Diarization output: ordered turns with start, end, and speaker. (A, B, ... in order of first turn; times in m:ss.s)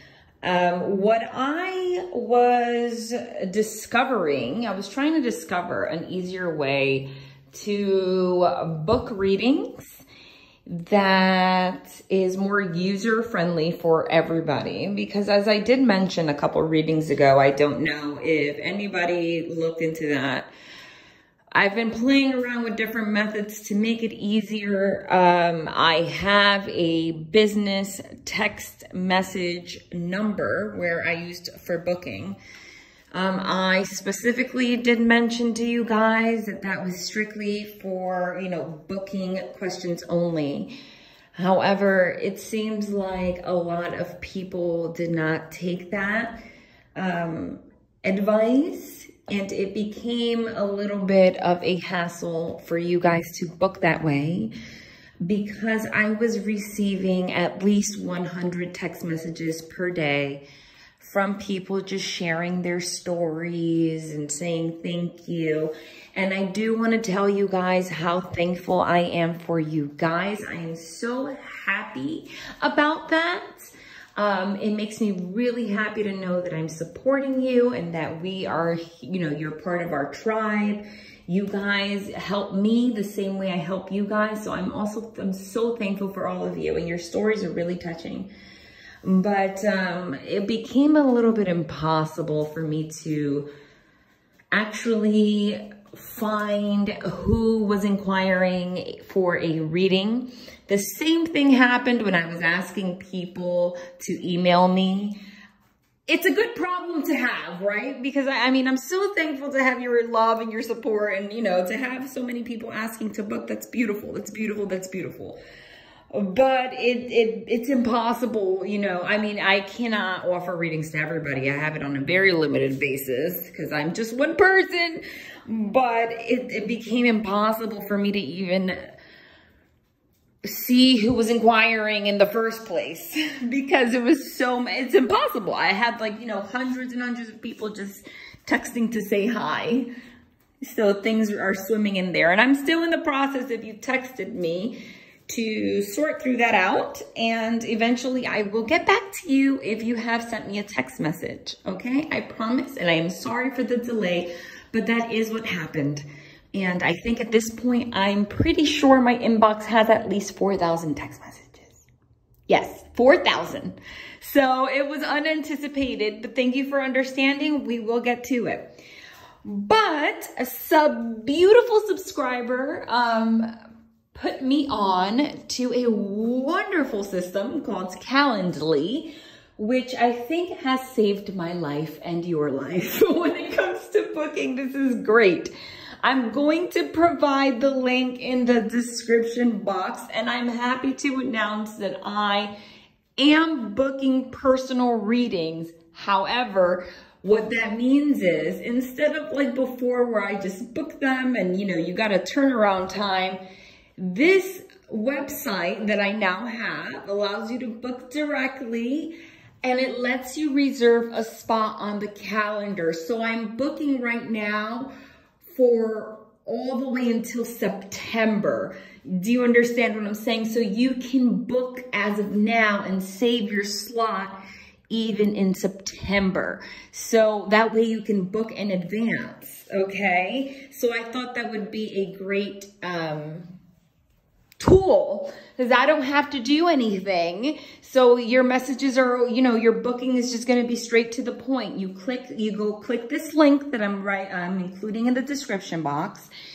0:00.4-0:10.0 A
0:10.7-0:20.5 A
0:21.5-0:32.4 A
0:33.1-0:40.7 A
0:41.4-0:46.4 A
0:47.0-0:54.5 A
0:55.2-1:00.4 A
1:01.0-1:28.3 A
1:29.0-1:33.5 A
1:34.5-1:45.2 A
1:46.1-1:55.4 A
1:56.1-2:08.8 A
2:10.4-2:19.9 A
2:20.6-2:24.8 A
2:25.3-2:41.9 A
2:42.5-2:48.8 A
2:49.4-2:53.5 A
2:54.1-3:05.5 A
3:06.0-3:12.5 A
3:13.2-3:23.4 A
3:24.0-3:34.9 A
3:35.5-3:44.4 A
3:44.9-3:53.5 A
3:54.6-4:06.3 A